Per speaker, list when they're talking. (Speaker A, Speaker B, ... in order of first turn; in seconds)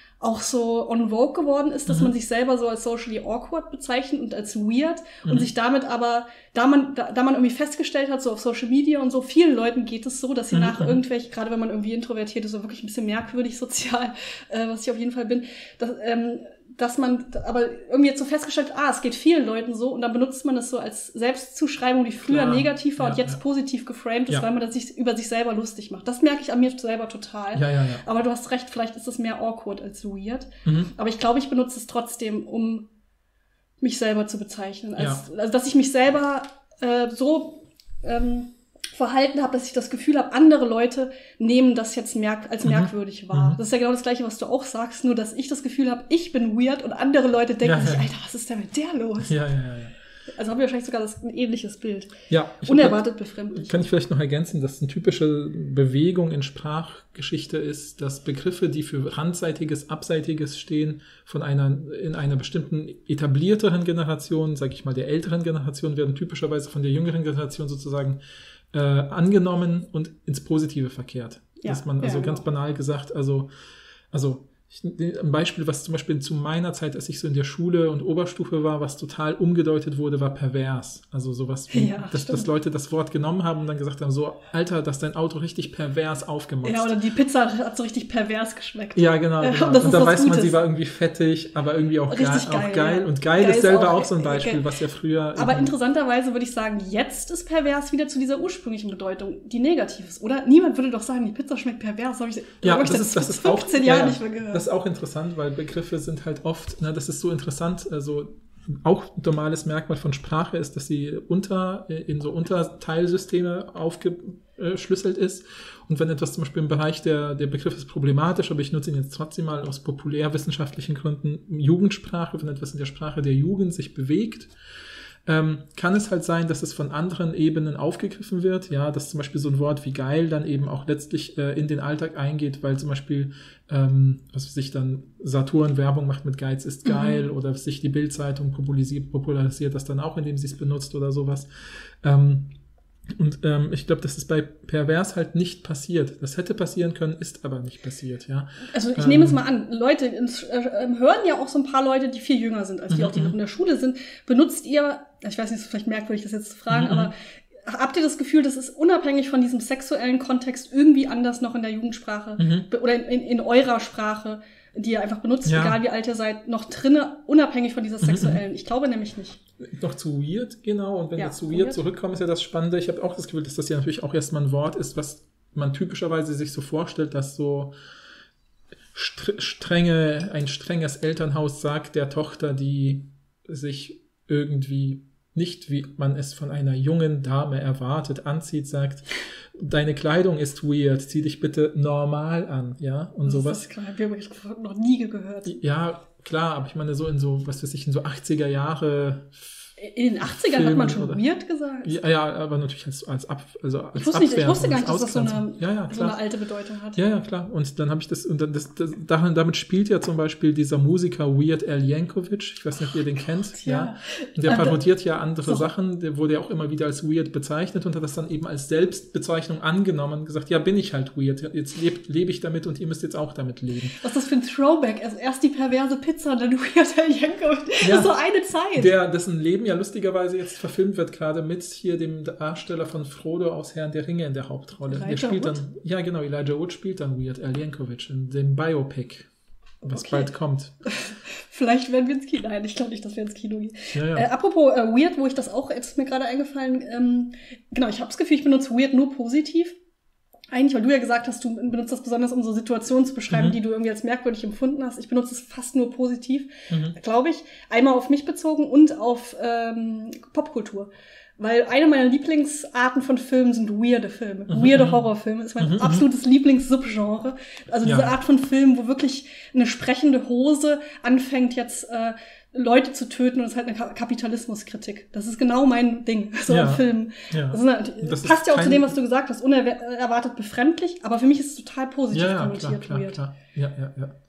Speaker A: 0.2-32.9, 33.8-49.4, 50.3-53.9, 71.6-72.5, 81.7-82.5, 86.6-90.6, 92.1-94.6, 95.3-104.6, 136.8-137.2, 148.7-169.4, 171.2-171.8, 193.3-195.6, 199.8-202.0, 203.9-207.0, 213.5-214.8, 224.0-228.9, 234.9-235.6, 239.9-240.3, 240.8-249.8, 250.5-283.2
Speaker B: 5.2-5.5, 10.5-11.0, 22.2-23.4, 27.5-28.0, 30.6-30.9, 35.0-35.2, 42.6-43.6, 47.6-48.1, 49.2-50.0, 52.3-53.0, 53.5-68.2, 68.7-73.5, 74.1-87.0, 89.0-95.7, 102.6-124.5, 125.3-142.5, 143.1-149.4, 152.9-153.4, 156.7-157.1, 162.4-162.7, 165.4-165.8, 168.0-168.4, 169.6-177.7, 178.9-193.7, 195.4-199.7, 200.3-201.2, 201.8-206.2, 206.9-224.0, 227.8-228.1, 228.8-239.3, 239.8-240.7, 243.9-244.3, 253.3-253.6, 256.7-257.0, 264.5-265.0, 265.6-266.1, 267.8-268.2, 276.5-278.9, 282.1-284.2